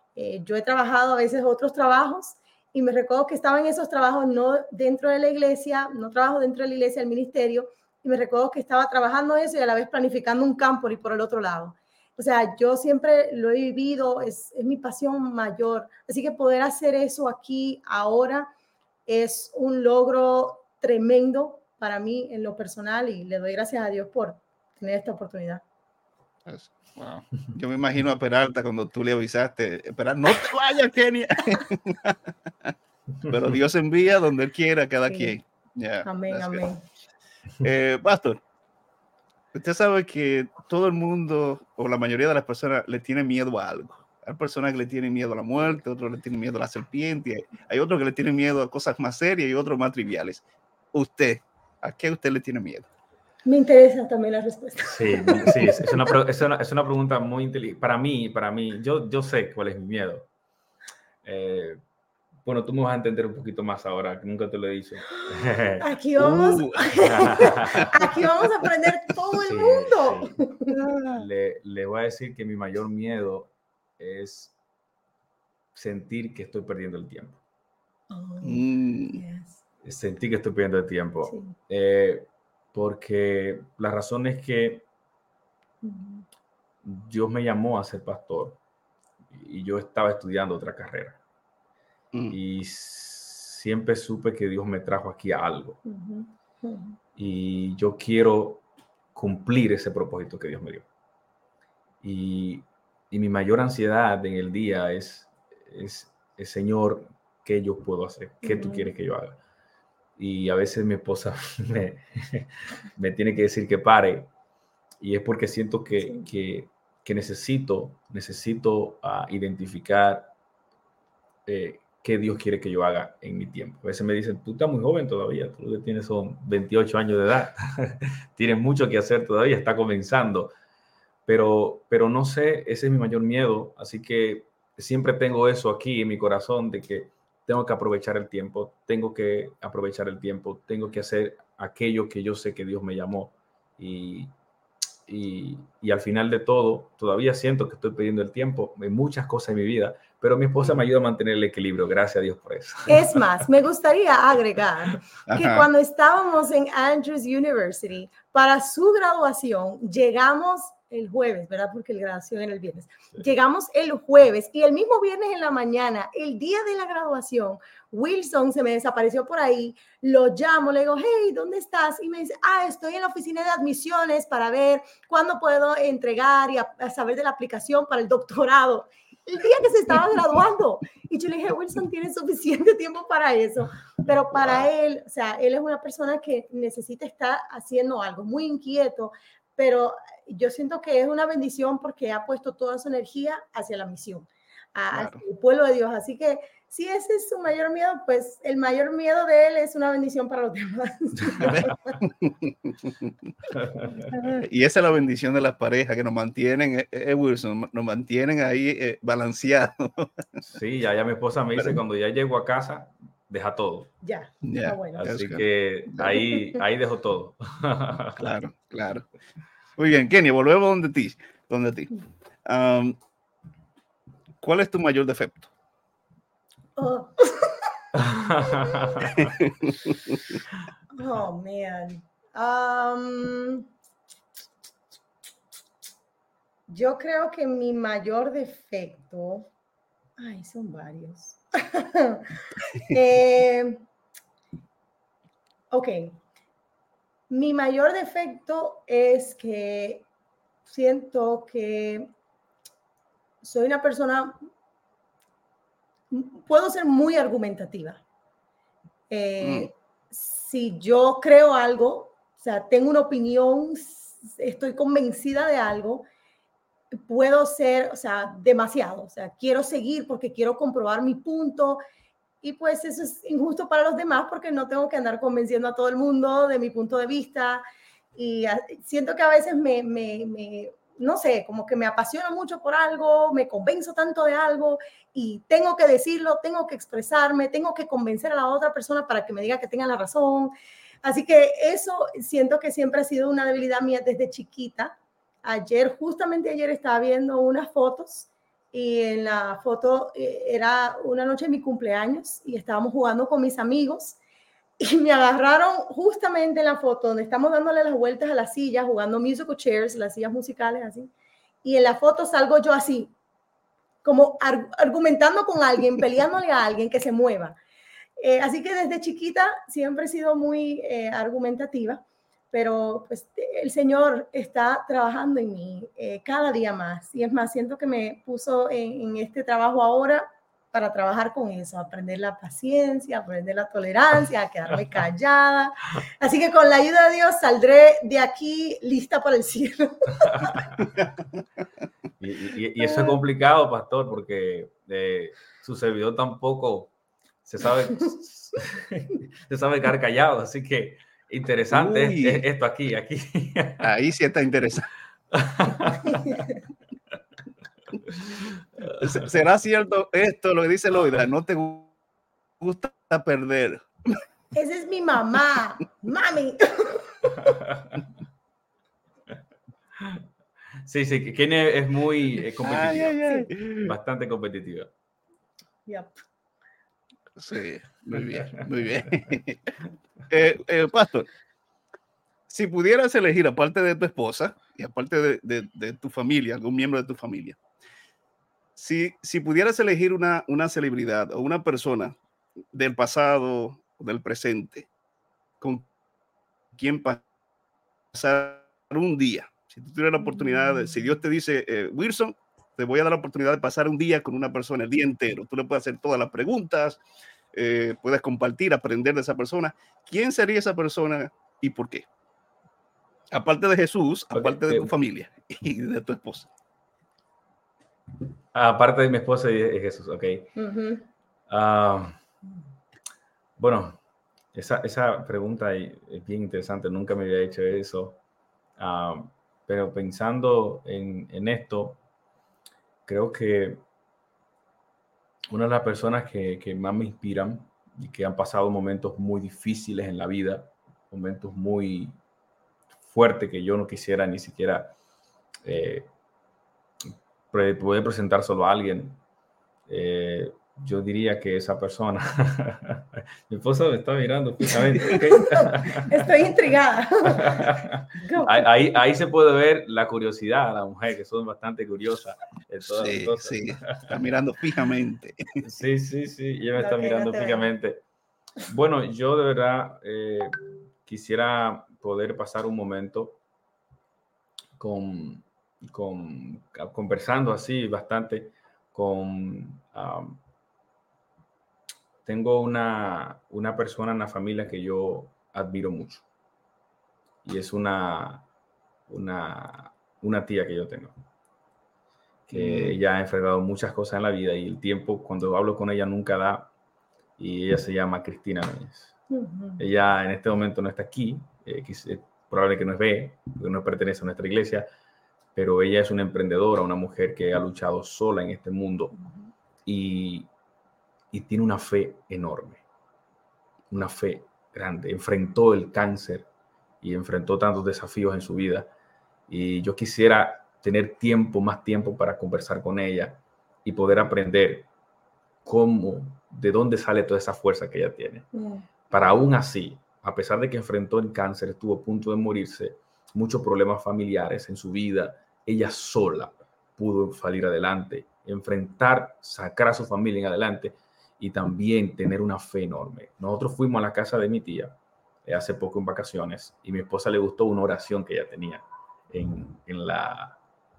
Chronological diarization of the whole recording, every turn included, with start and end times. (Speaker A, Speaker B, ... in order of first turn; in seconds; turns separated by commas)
Speaker A: 0.1-18.5, Speaker A: 19.1-25.6, Speaker B: 26.4-32.7, Speaker B: 33.3-36.6, Speaker A: 35.1-35.4, Speaker A: 36.0-36.8, Speaker B: 37.6-38.4, Speaker B: 39.5-52.9, Speaker A: 53.5-56.1, Speaker C: 54.8-60.3, Speaker C: 61.2-61.8, Speaker C: 62.5-65.8, Speaker A: 65.2-70.8, Speaker B: 66.2-68.1, Speaker C: 67.0-67.9, Speaker C: 69.4-70.4, Speaker B: 70.9-71.2, Speaker C: 71.1-74.5, Speaker C: 75.7-77.4, Speaker A: 78.1-79.6, Speaker B: 78.4-79.2, Speaker C: 79.8-84.9, Speaker A: 81.3-81.5, Speaker A: 85.8-86.2, Speaker C: 86.8-88.6, Speaker C: 89.3-91.2, Speaker C: 92.3-95.8, Speaker A: 95.8-97.0, Speaker C: 97.2-98.6, Speaker C: 99.1-100.9, Speaker C: 102.0-109.4, Speaker A: 108.4-108.9, Speaker C: 110.2-114.3, Speaker C: 115.0-120.3, Speaker A: 116.0-116.3, Speaker C: 121.5-130.5, Speaker C: 131.3-144.3, Speaker C: 145.1-153.5, Speaker A: 152.9-201.8, Speaker B: 155.3-155.7, Speaker C: 184.3-184.7, Speaker B: 194.9-195.2, Speaker C: 201.2-201.5, Speaker B: 201.3-203.3, Speaker C: 203.6-204.1, Speaker B: 204.2-210.2, Speaker C: 210.4-213.9, Speaker A: 214.0-215.1, Speaker B: 214.4-215.4, Speaker C: 215.0-218.2, Speaker A: 216.1-216.6, Speaker B: 218.2-219.1, Speaker B: 219.8-223.0, Speaker B: 224.4-225.5, Speaker A: 226.8-227.7, Speaker C: 227.9-229.3, Speaker A: 228.4-229.1, Speaker B: 229.1-230.4, Speaker A: 230.9-233.7, Speaker A: 236.7-239.5, Speaker A: 240.2-243.8, Speaker A: 245.7-246.2, Speaker A: 247.3-250.1, Speaker A: 250.7-252.1, Speaker A: 253.4-254.4, Speaker A: 256.1-258.0, Speaker A: 259.1-266.1, Speaker B: 259.4-259.7, Speaker A: 266.9-271.8, Speaker A: 272.4-277.6, Speaker A: 278.1-304.2, Speaker A: 304.8-311.1, Speaker A: 311.6-313.1, Speaker A: 314.0-317.6, Speaker A: 318.2-340.7, Speaker C: 340.3-340.6, Speaker B: 341.0-341.4, Speaker C: 342.2-346.9, Speaker A: 342.8-343.2, Speaker C: 347.4-353.9, Speaker B: 351.7-352.4, Speaker B: 353.8-354.9, Speaker C: 355.3-356.4, Speaker C: 358.9-359.3, Speaker B: 358.9-361.9, Speaker B: 362.6-364.2, Speaker A: 364.5-367.6, Speaker C: 367.2-368.0, Speaker C: 370.0-370.2, Speaker C: 370.8-373.2, Speaker B: 372.6-373.9, Speaker C: 373.8-374.9, Speaker A: 375.9-376.1, Speaker B: 377.4-379.8, Speaker B: 380.3-381.3, Speaker B: 382.5-387.6, Speaker B: 388.8-392.2, Speaker B: 392.7-394.9, Speaker B: 395.6-395.9, Speaker B: 396.7-397.2, Speaker B: 398.1-407.0, Speaker A: 400.3-400.7, Speaker B: 407.5-412.1, Speaker B: 413.3-416.5, Speaker C: 414.3-414.9, Speaker C: 418.5-420.6, Speaker A: 420.6-421.0, Speaker C: 421.5-422.2, Speaker C: 423.6-424.0, Speaker C: 424.5-428.2, Speaker C: 428.8-432.0, Speaker C: 433.1-433.8, Speaker C: 435.5-442.2, Speaker C: 443.1-444.9, Speaker C: 445.6-446.1, Speaker C: 447.5-449.2, Speaker C: 449.9-456.3, Speaker A: 455.0-458.7, Speaker C: 457.3-464.2, Speaker B: 462.9-465.6, Speaker C: 465.6-468.0, Speaker A: 466.8-467.7, Speaker C: 468.7-473.4, Speaker C: 474.8-480.4, Speaker C: 482.2-486.2, Speaker C: 487.4-488.4, Speaker C: 489.1-491.1, Speaker C: 492.5-496.7, Speaker B: 492.5-493.0, Speaker C: 497.4-499.1, Speaker A: 499.3-499.8, Speaker C: 499.8-504.9, Speaker C: 505.6-509.1, Speaker A: 509.1-509.5, Speaker C: 509.9-510.5, Speaker C: 511.3-512.8, Speaker C: 513.9-516.5, Speaker C: 517.0-518.9, Speaker C: 519.5-524.9, Speaker C: 525.6-528.5, Speaker A: 528.5-528.8, Speaker C: 529.1-550.6